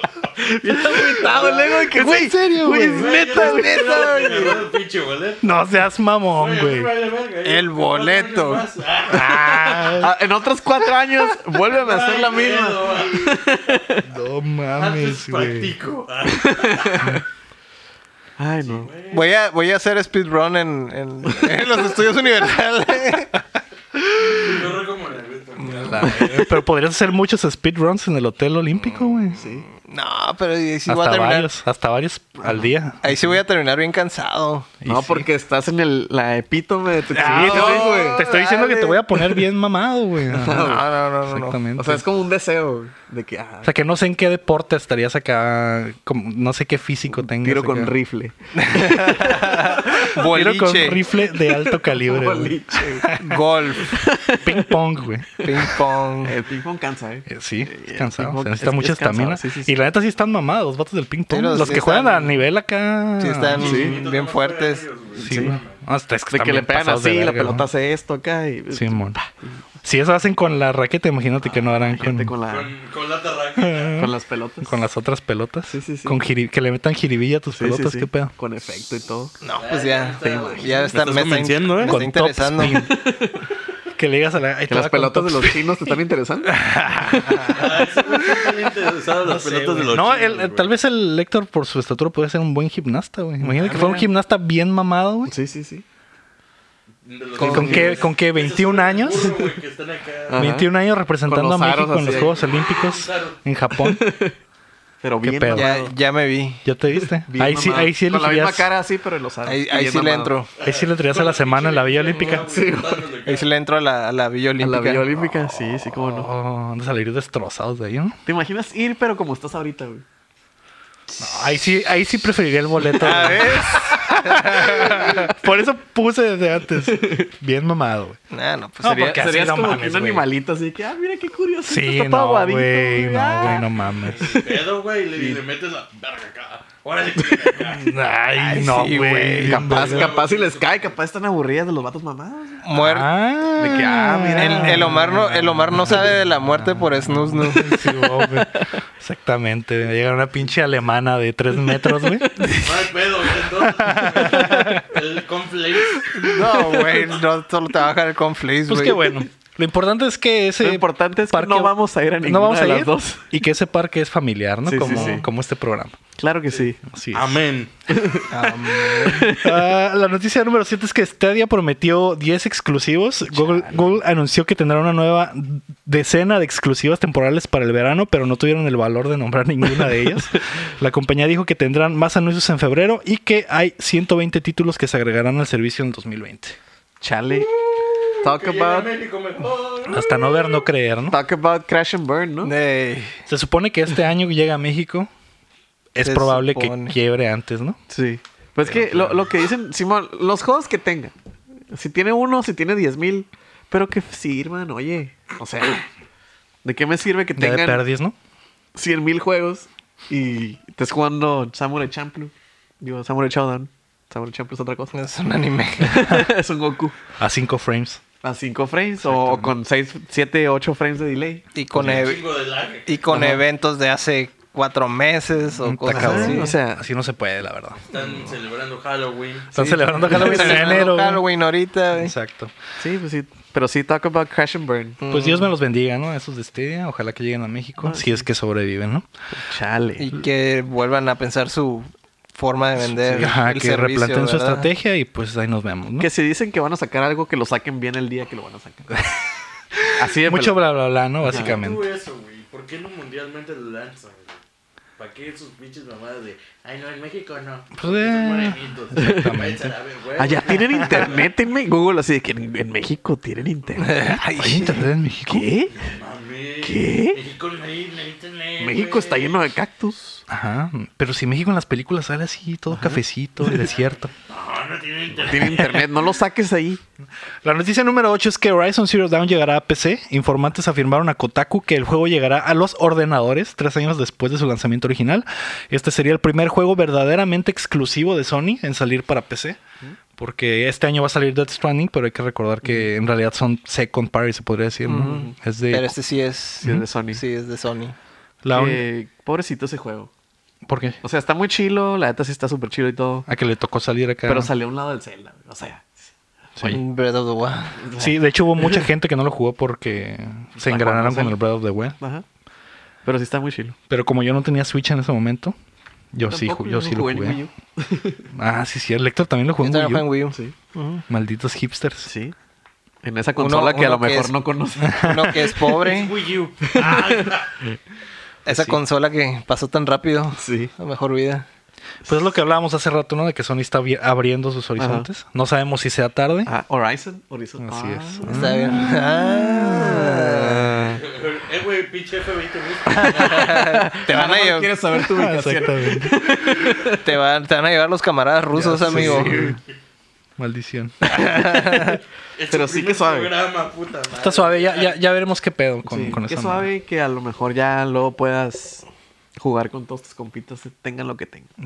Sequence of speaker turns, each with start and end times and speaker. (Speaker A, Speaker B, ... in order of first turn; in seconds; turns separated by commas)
Speaker A: 0.3-4.6, Speaker B: 1.2-1.6, Speaker C: 1.9-3.1, Speaker B: 2.8-5.4, Speaker D: 3.3-4.6, Speaker C: 5.4-6.9, Speaker B: 6.3-10.0, Speaker D: 7.4-8.6, Speaker C: 9.1-10.1, Speaker A: 9.9-14.0, Speaker B: 11.7-13.4, Speaker C: 14.1-15.7, Speaker B: 14.8-17.2, Speaker A: 16.3-17.2, Speaker A: 18.4-18.9, Speaker B: 18.6-19.3, Speaker D: 19.1-23.3, Speaker B: 24.3-26.4, Speaker C: 25.8-29.4, Speaker A: 26.1-26.4, Speaker A: 29.4-29.6, Speaker D: 29.8-31.5, Speaker C: 30.9-33.4, Speaker D: 33.0-34.7, Speaker C: 34.8-35.3, Speaker A: 34.9-39.2, Speaker C: 37.1-42.0, Speaker B: 37.3-38.1, Speaker D: 37.3-38.5, Speaker A: 40.3-40.9, Speaker D: 40.5-41.6, Speaker A: 41.8-43.7, Speaker C: 43.6-47.9, Speaker A: 47.2-50.1, Speaker D: 48.6-51.0, Speaker C: 50.0-53.4, Speaker A: 51.6-53.1, Speaker D: 53.1-54.0, Speaker A: 53.8-54.7, Speaker C: 54.4-55.7, Speaker D: 55.4-56.4, Speaker A: 56.2-59.7, Speaker C: 57.3-63.8, Speaker D: 61.3-62.4, Speaker D: 63.2-64.9, Speaker B: 63.5-65.8, Speaker A: 63.6-64.0, Speaker A: 65.2-65.6, Speaker C: 65.2-67.7, Speaker A: 66.3-69.6, Speaker C: 68.7-69.2, Speaker C: 69.8-72.3, Speaker A: 71.4-72.7, Speaker B: 72.5-74.1, Speaker C: 73.6-78.3, Speaker A: 74.0-74.8, Speaker A: 75.7-76.2, Speaker A: 77.5-79.3, Speaker D: 79.4-82.8, Speaker B: 79.6-82.0, Speaker A: 80.2-81.2, Speaker C: 81.8-82.9, Speaker A: 82.6-83.4, Speaker C: 84.0-85.9, Speaker A: 84.7-87.7, Speaker C: 86.5-88.5, Speaker B: 87.5-90.7, Speaker C: 89.2-95.3, Speaker A: 93.4-94.0, Speaker D: 93.7-94.0, Speaker A: 95.3-95.8, Speaker B: 97.0-100.5, Speaker D: 97.4-98.0, Speaker C: 97.4-99.3, Speaker A: 97.7-97.9, Speaker A: 99.2-99.5, Speaker A: 100.3-100.7, Speaker C: 100.3-104.0, Speaker A: 101.2-102.4, Speaker B: 102.0-103.4, Speaker A: 103.8-104.3, Speaker A: 105.0-105.9, Speaker C: 105.2-105.7, Speaker D: 105.5-106.6, Speaker C: 106.6-108.7, Speaker A: 107.0-110.3, Speaker D: 109.4-110.5, Speaker B: 110.6-113.5, Speaker C: 110.6-112.5, Speaker A: 112.3-113.0, Speaker D: 113.2-115.0, Speaker A: 114.6-116.3, Speaker C: 116.0-118.2, Speaker A: 118.2-120.0, Speaker D: 121.1-121.4, Speaker C: 121.2-128.2, Speaker D: 123.0-125.3, Speaker A: 126.8-127.2, Speaker D: 128.3-129.1, Speaker C: 128.8-130.3, Speaker A: 128.8-134.6, Speaker C: 131.6-134.3, Speaker B: 134.1-137.9, Speaker A: 135.1-135.4, Speaker A: 137.2-137.5, Speaker C: 137.6-140.2, Speaker D: 138.4-139.7, Speaker A: 139.4-142.7, Speaker B: 139.5-140.9, Speaker D: 142.6-143.1, Speaker C: 142.7-152.4, Speaker A: 143.6-145.1, Speaker D: 144.3-148.2, Speaker A: 152.2-152.5, Speaker B: 152.4-156.9, Speaker C: 153.8-154.8, Speaker D: 156.2-159.2, Speaker C: 158.7-166.0, Speaker A: 160.6-163.2, Speaker A: 164.7-165.3, Speaker D: 164.8-165.2, Speaker A: 166.2-166.8, Speaker C: 166.9-167.3, Speaker B: 167.1-168.2, Speaker A: 167.9-169.7, Speaker D: 168.3-169.3, Speaker C: 169.1-186.6, Speaker A: 173.3-174.0, Speaker A: 187.0-187.5, Speaker B: 187.5-190.5, Speaker A: 188.2-188.9, Speaker C: 189.9-191.2, Speaker A: 191.1-192.5, Speaker D: 192.4-193.2, Speaker C: 193.3-195.1, Speaker C: 195.9-197.8, Speaker D: 196.0-196.9, Speaker A: 197.9-201.1, Speaker C: 198.6-199.2, Speaker A: 201.7-205.8, Speaker A: 206.6-207.8, Speaker C: 207.3-208.1, Speaker A: 208.7-214.9, Speaker D: 214.9-216.1, Speaker A: 215.8-217.0, Speaker C: 217.2-218.0, Speaker A: 218.2-221.4, Speaker C: 219.0-219.5, Speaker D: 221.5-222.2, Speaker B: 221.7-222.9, Speaker D: 222.8-226.5, Speaker C: 223.1-223.4, Speaker C: 225.6-227.8, Speaker A: 225.9-226.8, Speaker B: 227.9-230.0, Speaker A: 229.5-230.8, Speaker C: 229.5-231.2, Speaker D: 230.1-232.1, Speaker C: 231.9-232.5, Speaker A: 232.8-235.0, Speaker D: 235.0-235.5, Speaker C: 235.1-239.1, Speaker A: 237.8-238.2, Speaker A: 239.3-240.1, Speaker D: 240.0-244.7, Speaker A: 242.9-243.4, Speaker C: 243.2-246.1, Speaker A: 246.0-249.1, Speaker C: 249.7-251.8, Speaker A: 249.9-250.6, Speaker B: 251.2-254.4, Speaker A: 251.3-251.6, Speaker B: 255.0-261.3, Speaker C: 257.8-259.7, Speaker A: 259.0-259.3, Speaker A: 260.2-264.0, Speaker D: 263.8-264.8, Speaker C: 264.0-265.5, Speaker A: 265.2-265.7, Speaker B: 265.7-269.4, Speaker A: 266.6-267.2, Speaker A: 268.6-270.2, Speaker C: 270.3-274.1, Speaker A: 272.7-273.0, Speaker B: 273.5-275.9, Speaker A: 275.2-276.8, Speaker C: 277.4-289.6, Speaker C: 290.2-295.9, Speaker A: 292.6-292.9, Speaker D: 294.9-297.9, Speaker A: 295.0-295.3, Speaker A: 296.6-297.2, Speaker C: 298.4-298.8, Speaker A: 298.5-300.1, Speaker C: 300.7-301.0, Speaker A: 301.0-303.3, Speaker C: 303.3-304.5, Speaker A: 304.2-306.1, Speaker D: 306.6-307.8, Speaker A: 307.8-308.9, Speaker C: 308.0-312.0, Speaker A: 310.6-311.4, Speaker A: 312.0-312.2, Speaker A: 313.0-313.8, Speaker C: 313.9-315.6, Speaker C: 316.1-317.4, Speaker A: 316.3-318.3, Speaker C: 318.3-320.1, Speaker D: 319.6-321.0, Speaker C: 321.1-322.1, Speaker A: 322.0-322.3, Speaker A: 323.0-325.6, Speaker D: 323.4-324.3, Speaker C: 324.8-325.3, Speaker D: 325.0-326.1, Speaker B: 325.7-327.5, Speaker A: 326.7-327.7, Speaker D: 328.4-331.4, Speaker C: 328.5-328.8, Speaker A: 330.4-330.7, Speaker C: 332.0-336.5, Speaker A: 334.8-335.1, Speaker A: 336.4-341.0, Speaker C: 337.6-340.0, Speaker D: 338.2-340.7, Speaker B: 340.9-343.8, Speaker D: 342.9-344.7, Speaker A: 343.2-347.0, Speaker C: 345.0-346.2, Speaker D: 347.0-349.5, Speaker A: 348.5-349.6, Speaker C: 348.8-349.6, Speaker C: 350.4-351.0, Speaker D: 351.1-352.0, Speaker A: 351.1-351.9, Speaker B: 352.4-355.0, Speaker A: 352.5-353.3, Speaker C: 354.1-356.7, Speaker A: 355.8-358.9, Speaker A: 359.4-361.5